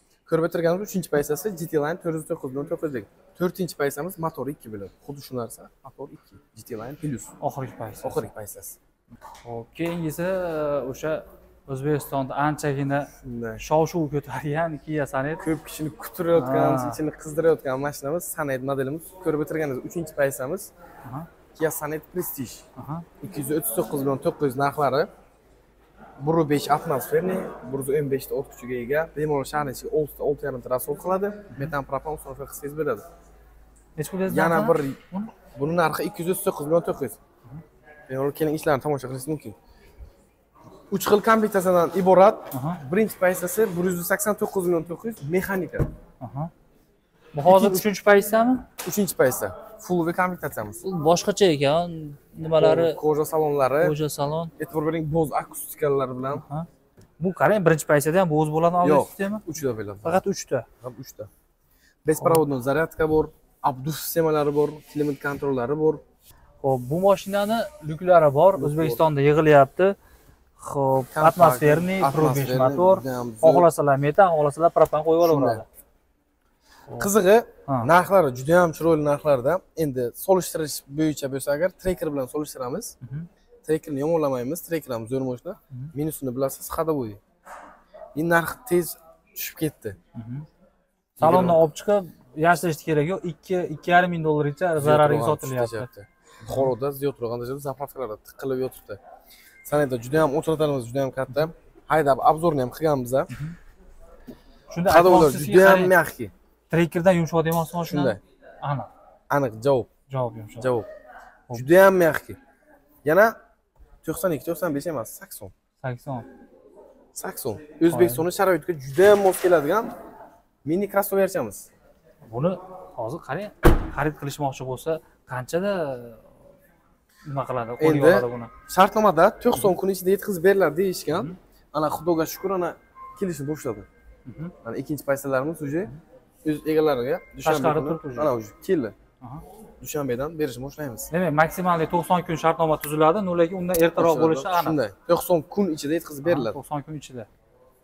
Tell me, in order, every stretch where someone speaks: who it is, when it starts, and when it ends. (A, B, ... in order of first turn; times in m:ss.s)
0:00.2-0:07.3 A
0:07.4-0:08.3 B
0:08.0-0:08.8 A
0:09.4-0:15.4 B
0:13.2-0:13.6 A
0:15.4-0:20.7 A
0:16.3-0:17.0 B
0:21.5-0:22.6 A
0:22.8-0:23.1 B
0:23.2-0:25.1 A
0:26.2-0:33.0 A
0:34.0-0:35.3 B
0:34.3-0:35.0 A
0:35.6-0:37.2 A
0:38.1-0:39.6 A
0:40.9-0:45.9 A
0:42.5-0:42.8 B
0:46.2-0:46.5 B
0:47.3-0:48.6 B
0:47.4-0:47.8 A
0:48.8-0:50.8 A
0:50.8-0:53.0 B
0:52.5-0:54.0 A
0:53.8-0:54.5 B
0:54.6-0:56.4 A
0:56.3-0:56.7 B
0:57.2-0:59.4 B
0:58.8-1:00.2 A
1:00.0-1:00.7 B
1:00.8-1:01.3 A
1:02.0-1:06.0 A
1:06.6-1:10.0 B
1:08.6-1:09.0 A
1:10.6-1:15.6 B
1:11.1-1:13.7 A
1:15.2-1:15.6 A
1:17.0-1:22.9 A
1:23.0-1:23.3 B
1:23.6-1:27.2 A
1:28.1-1:30.0 A
1:30.1-1:30.4 B
1:31.2-1:35.9 B
1:31.2-1:31.6 A
1:34.8-1:39.0 A
1:39.6-1:43.3 A
1:43.3-1:43.6 B
1:44.7-1:45.9 B
1:44.9-1:46.3 A
1:46.7-1:48.9 B
1:47.8-1:48.2 A
1:49.3-1:49.9 A
1:50.1-1:50.7 B
1:50.6-1:50.9 A
1:51.5-1:52.4 A
1:53.0-1:53.3 A
1:54.0-1:55.5 A
1:55.8-1:56.3 B
1:57.1-1:59.9 A
1:57.9-1:58.2 B
2:00.6-2:01.7 A
2:02.2-2:06.2 B
2:07.2-2:08.5 B
2:07.8-2:13.9 A
2:11.1-2:11.4 B
2:14.2-2:14.5 B
2:14.6-2:15.9 A
2:16.4-2:18.9 A
2:17.4-2:18.3 B
2:19.8-2:21.1 A
2:21.1-2:24.8 B
2:24.0-2:26.6 A
2:26.2-2:27.3 B